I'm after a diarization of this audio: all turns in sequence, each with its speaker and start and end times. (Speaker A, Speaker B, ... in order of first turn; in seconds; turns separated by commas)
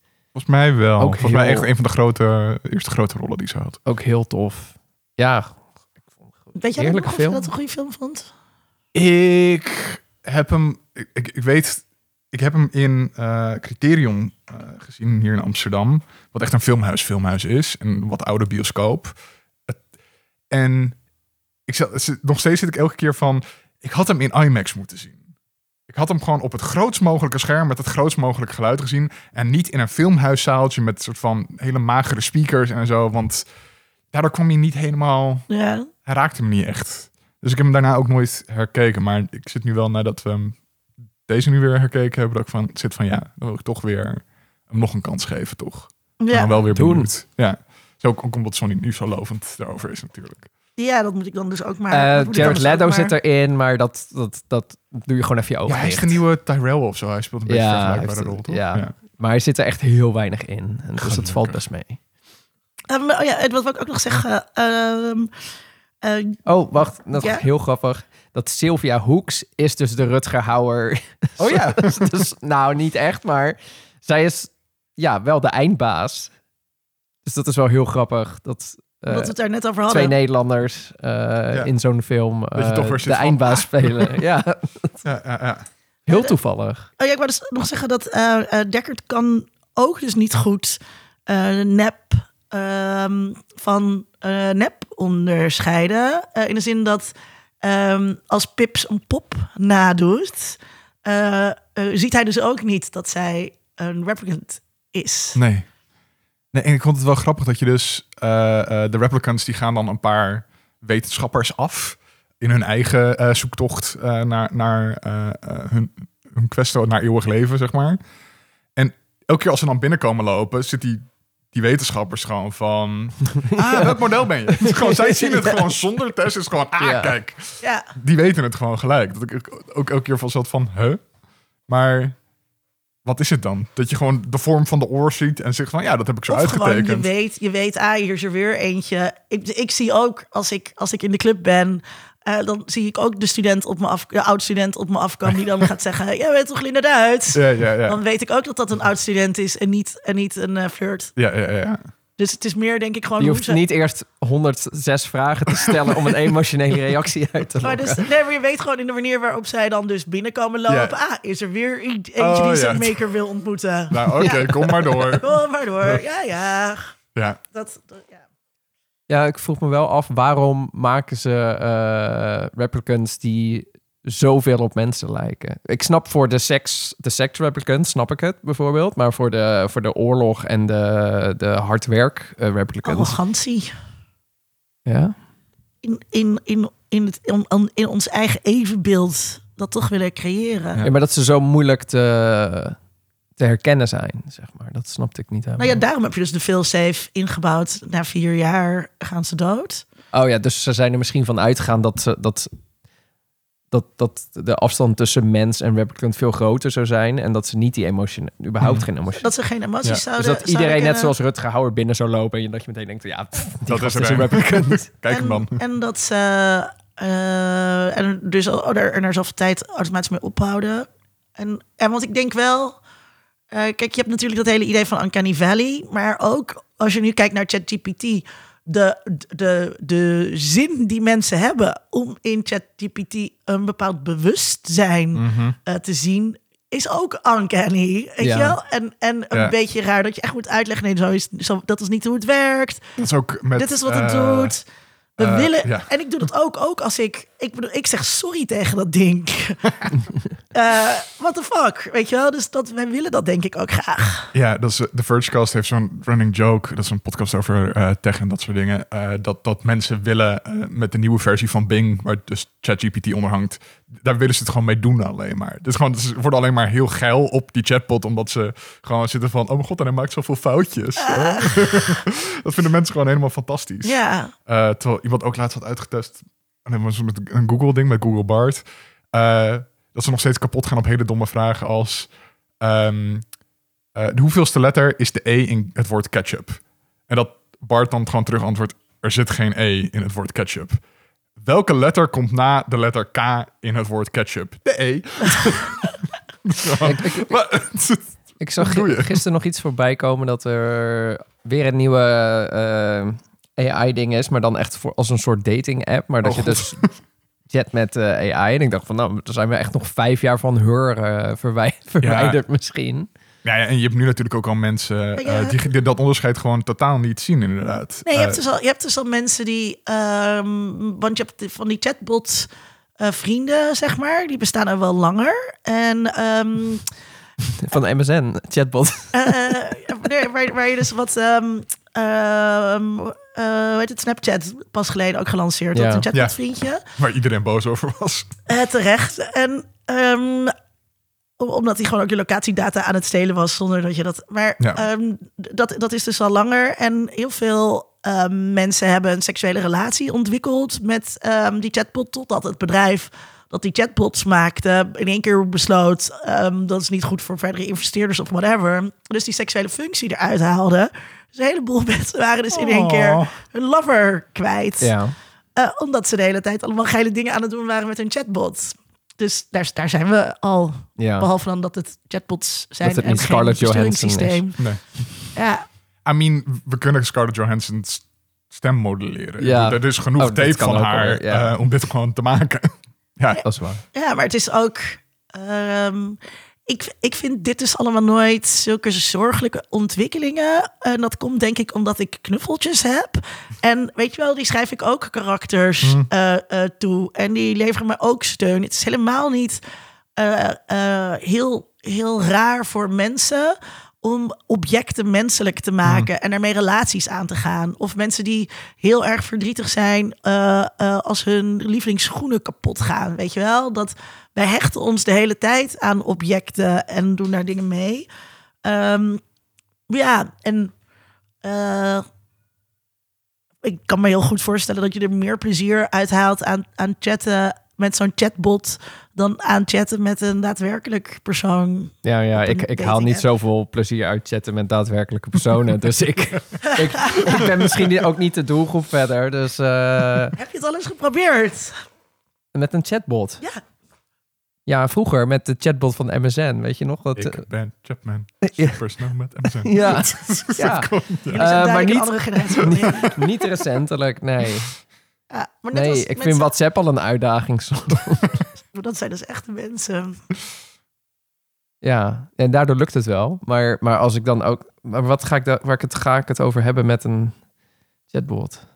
Speaker A: 0.3-3.8, Speaker B: 1.0-1.7, Speaker B: 3.9-7.5, Speaker C: 6.5-8.3, Speaker A: 8.9-19.1, Speaker A: 20.5-21.0, Speaker A: 21.7-25.2, Speaker A: 25.9-33.4, Speaker A: 34.1-35.5, Speaker C: 35.5-35.9, Speaker A: 36.0-40.6, Speaker A: 41.2-50.5, Speaker C: 46.2-46.6, Speaker B: 46.7-47.1, Speaker C: 50.8-53.1, Speaker B: 51.9-56.2, Speaker A: 52.4-52.6, Speaker A: 55.7-58.9, Speaker B: 57.5-62.0, Speaker A: 61.0-61.6, Speaker C: 62.9-65.3, Speaker C: 66.0-66.4, Speaker B: 66.5-76.3, Speaker C: 67.2-67.4, Speaker A: 71.4-72.1, Speaker B: 77.2-85.0, Speaker C: 79.1-80.1, Speaker A: 82.5-84.2, Speaker A: 85.0-85.7, Speaker B: 86.0-86.9, Speaker C: 86.1-86.3, Speaker C: 87.0-105.4, Speaker A: 105.3-105.7, Speaker A: 106.5-118.0, Speaker A: 118.8-131.1, Speaker B: 123.6-124.0, Speaker B: 124.5-125.7, Speaker B: 126.8-127.1, Speaker C: 127.6-127.9, Speaker A: 131.7-132.2, Speaker A: 133.0-137.1, Speaker C: 136.3-151.1, Speaker A: 147.3-148.0, Speaker A: 151.2-151.8, Speaker C: 152.2-153.6, Speaker B: 153.2-158.0, Speaker C: 157.6-166.9, Speaker A: 160.7-160.9, Speaker A: 162.2-163.0, Speaker A: 163.9-166.0, Speaker B: 164.2-164.5, Speaker A: 167.1-167.4, Speaker C: 167.5-168.2, Speaker B: 169.1-183.2, Speaker C: 182.8-183.7, Speaker B: 184.8-185.1, Speaker C: 185.8-190.8, Speaker B: 190.8-192.8, Speaker B: 193.4-195.8, Speaker C: 195.6-199.8, Speaker B: 200.1-202.5, Speaker B: 203.7-209.3, Speaker A: 208.6-208.9, Speaker C: 209.2-211.1, Speaker B: 210.2-214.8, Speaker A: 213.7-215.6, Speaker C: 215.1-222.8, Speaker C: 223.5-242.9, Speaker A: 235.1-235.6, Speaker B: 238.2-238.6, Speaker A: 243.0-244.6, Speaker C: 243.6-244.7, Speaker C: 245.2-249.8, Speaker A: 245.2-245.9, Speaker C: 250.5-254.3, Speaker A: 254.3-283.3, Speaker C: 271.0-271.9, Speaker C: 273.8-274.3, Speaker A: 283.9-290.8, Speaker A: 291.4-299.2, Speaker B: 296.8-297.4, Speaker B: 298.4-306.9, Speaker A: 306.2-306.9, Speaker B: 307.5-313.1, Speaker A: 312.0-312.4, Speaker A: 313.4-318.4, Speaker C: 315.1-315.6, Speaker C: 318.1-322.5, Speaker C: 323.0-326.8, Speaker B: 327.6-329.6, Speaker C: 329.1-336.8, Speaker B: 335.7-336.0, Speaker A: 336.9-338.3, Speaker C: 338.5-340.5, Speaker C: 341.4-365.0, Speaker A: 362.5-363.4, Speaker B: 364.8-365.1, Speaker C: 365.5-375.6, Speaker B: 371.0-371.3, Speaker B: 372.8-374.4, Speaker A: 374.6-375.1, Speaker A: 376.0-383.4, Speaker B: 379.4-381.5, Speaker B: 383.4-383.8, Speaker C: 383.9-399.6, Speaker A: 395.8-396.1, Speaker C: 400.2-418.1, Speaker A: 405.8-406.1, Speaker C: 418.6-419.2, Speaker C: 419.9-420.7, Speaker C: 421.4-422.0, Speaker C: 423.6-433.2, Speaker B: 432.0-440.4, Speaker C: 436.6-437.4, Speaker C: 440.4-441.7, Speaker B: 442.5-443.4, Speaker B: 444.6-447.4, Speaker A: 447.1-451.5, Speaker B: 448.4-448.8, Speaker B: 449.6-454.8, Speaker C: 451.3-453.2, Speaker C: 455.3-456.5, Speaker B: 455.7-458.5, Speaker C: 458.7-460.2, Speaker B: 461.8-467.4, Speaker B: 468.1-468.6